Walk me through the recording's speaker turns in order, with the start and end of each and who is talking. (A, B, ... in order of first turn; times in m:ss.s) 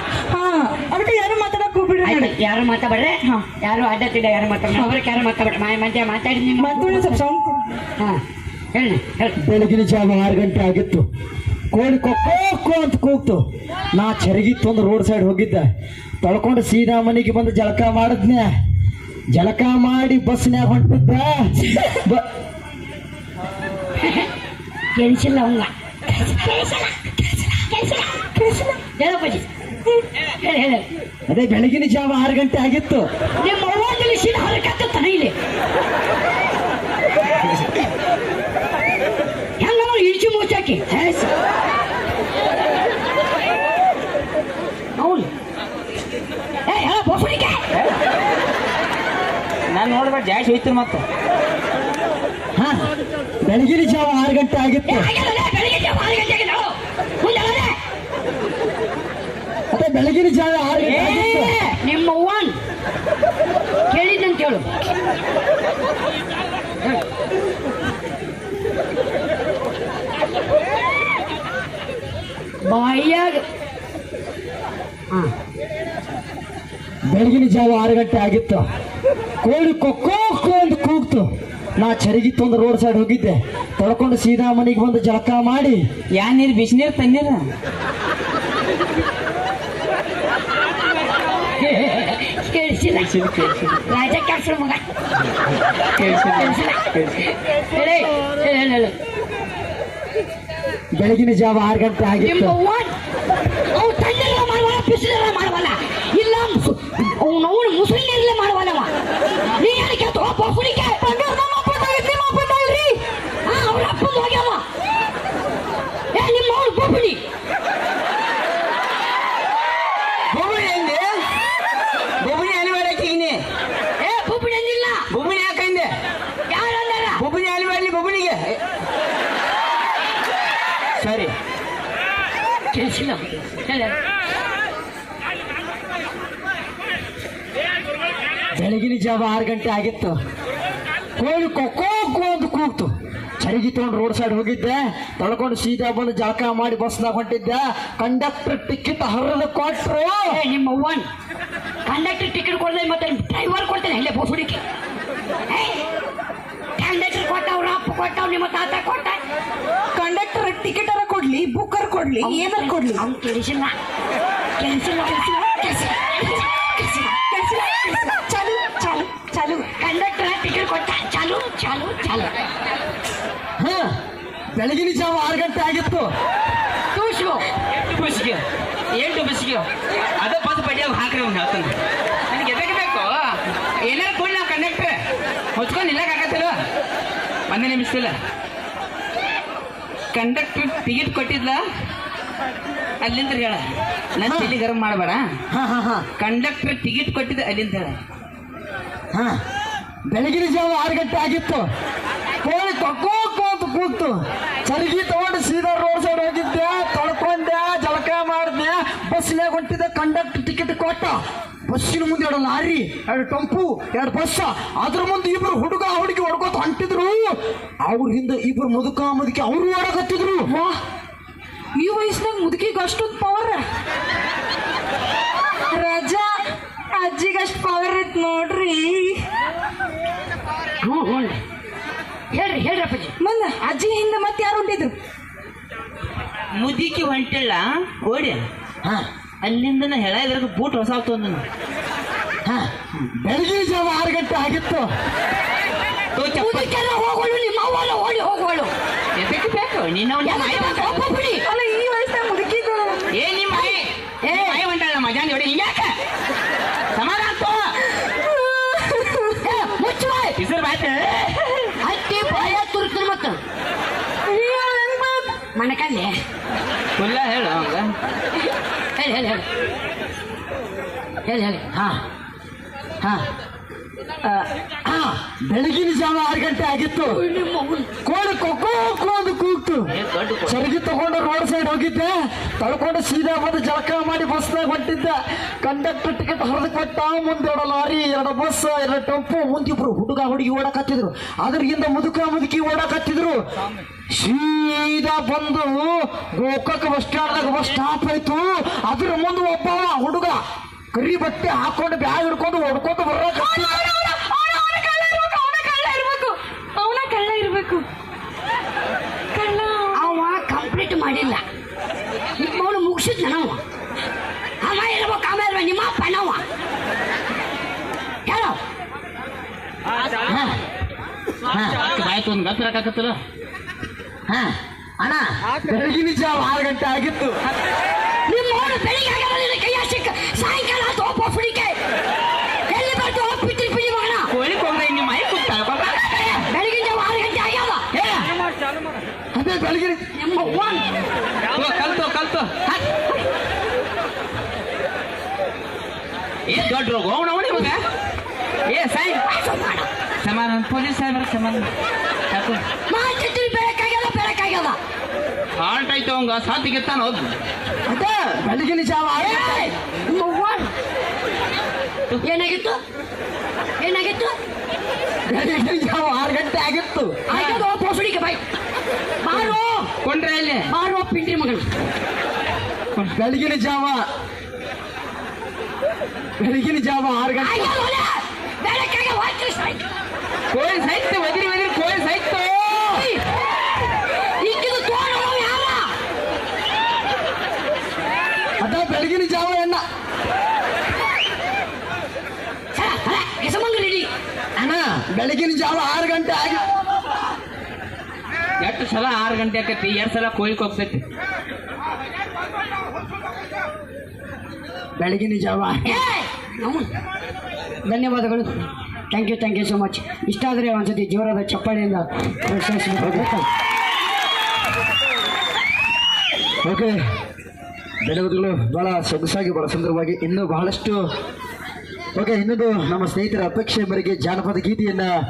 0:00.3-0:02.3 A
0:02.0-0:07.2 B
0:06.6-0:07.7 A
0:08.7-0:09.4 B
0:09.4-0:11.0 C
0:11.7-0:15.7 C
0:16.2-0:18.5 C
0:19.3-0:22.2 C
0:24.0-0:24.3 B
0:25.0-0:28.3 B
0:28.4-0:28.8 A
0:29.0-0:29.5 B
0:30.4-0:30.9 B
0:31.3-0:33.0 C
0:33.4-0:35.3 B
0:39.6-0:40.8 B
0:40.9-0:41.3 D
0:45.0-0:45.3 B
0:46.7-0:47.6 B
0:49.7-0:51.0 D
0:52.6-0:52.9 C
0:53.4-0:55.1 C
0:54.9-0:57.8 B
0:59.7-1:01.6 C
1:00.8-1:01.8 D
1:01.8-1:02.6 B
1:03.9-1:04.7 B
1:12.6-1:13.4 B
1:17.1-1:18.6 C
1:19.4-1:25.8 C
1:26.1-1:27.5 D
1:31.6-1:33.1 B
1:33.0-1:33.8 D
1:33.9-1:34.8 B
1:35.9-1:37.3 D
1:36.0-1:38.9 B
1:40.9-1:42.6 C
1:42.2-1:42.9 B
1:43.7-1:48.9 B
1:49.6-1:51.0 B
1:51.0-1:53.0 A
1:53.4-1:54.6 B
1:56.1-1:57.2 B
2:00.3-2:01.0 D
2:02.2-2:03.4 D
2:04.0-2:05.1 B
2:05.1-2:05.9 D
2:06.5-2:07.2 B
2:07.2-2:08.6 D
2:11.0-2:11.3 D
2:12.7-2:14.0 B
2:18.6-2:20.2 C
2:21.2-2:30.4 C
2:30.3-2:31.0 B
2:31.9-2:34.6 B
2:35.5-2:35.8 B
2:36.8-2:39.2 B
2:39.9-2:43.0 A
2:42.2-2:43.7 B
2:44.6-2:47.1 B
2:46.8-2:49.7 A
2:49.8-2:52.3 B
2:53.6-2:53.9 C
2:54.6-2:56.1 C
2:56.9-2:57.4 B
2:57.8-3:01.8 D
3:02.3-3:05.0 D
3:05.5-3:06.6 D
3:07.5-3:08.2 D
3:10.1-3:11.6 D
3:13.0-3:13.6 D
3:14.2-3:15.2 D
3:14.2-3:14.6 C
3:15.5-3:16.1 C
3:16.2-3:18.0 D
3:19.1-3:19.4 C
3:20.1-3:21.7 C
3:22.4-3:40.5 C
3:40.5-3:40.8 A
3:41.8-3:43.6 A
3:45.7-3:46.3 A
3:46.9-3:49.2 A
3:50.8-3:51.4 B
3:52.3-3:53.1 B
3:53.2-3:55.0 A
3:56.6-3:58.5 D
3:59.4-4:01.4 D
4:02.4-4:04.9 C
4:06.2-4:06.7 D
4:06.3-4:08.7 B
4:09.2-4:11.1 D
4:10.2-4:11.5 B
4:11.4-4:13.1 A
4:13.1-4:16.0 D
4:14.2-4:14.6 B
4:16.9-4:17.8 D
4:18.1-4:19.4 A
4:19.4-4:20.4 B
4:20.4-4:21.4 D
4:21.8-4:23.4 B
4:24.2-4:25.4 A
4:25.6-4:26.1 B
4:27.0-4:27.9 D
4:29.0-4:29.4 B
4:31.2-4:31.6 B
4:31.7-4:32.0 C
4:34.8-4:37.2 C
4:37.1-4:37.9 B
4:38.0-4:39.9 C
4:39.9-4:40.6 D
4:40.5-4:53.4 C
4:54.1-5:00.4 C
5:00.9-5:03.9 C
5:03.3-5:07.8 A
5:09.3-5:10.1 A
5:09.9-5:11.4 B
5:12.4-5:13.6 B
5:14.6-5:16.4 B
5:18.3-5:18.6 B
5:20.3-5:20.6 C
5:21.5-5:21.8 C
5:21.8-5:23.2 D
5:24.3-5:27.4 C
5:28.3-5:31.8 B
5:32.7-5:34.3 B
5:34.3-5:36.5 D
5:36.5-5:37.8 B
5:37.9-5:38.3 D
5:39.3-5:40.0 C
5:40.2-5:40.8 B
5:41.5-5:42.5 D
5:42.7-5:43.3 B
5:46.5-5:47.8 D
5:48.7-5:49.2 D
5:49.3-5:49.9 B
5:50.2-5:51.7 D
5:52.3-5:52.6 D
5:52.9-5:54.8 B
5:55.6-5:57.3 D
5:57.9-5:59.7 C
5:59.2-6:00.7 B
6:02.2-6:02.8 B
6:03.8-6:04.4 B
6:05.3-6:07.2 C
6:07.3-6:08.4 B
6:09.2-6:09.9 B
6:09.3-6:10.7 D
6:10.7-6:11.6 B
6:13.1-6:14.0 C
6:16.4-6:17.8 C
6:17.4-6:19.8 B
6:20.5-6:23.0 D
6:22.7-6:23.2 B
6:24.4-6:25.9 B
6:28.6-6:29.8 C
6:32.8-6:34.1 B
6:34.6-6:36.6 C
6:38.6-6:41.0 D
6:45.0-6:45.9 C
6:45.8-6:46.9 B
6:47.9-6:48.5 B
6:49.1-6:53.4 B
6:53.0-6:53.3 C
6:56.6-6:57.0 C
6:58.0-7:01.1 C
7:02.2-7:05.1 C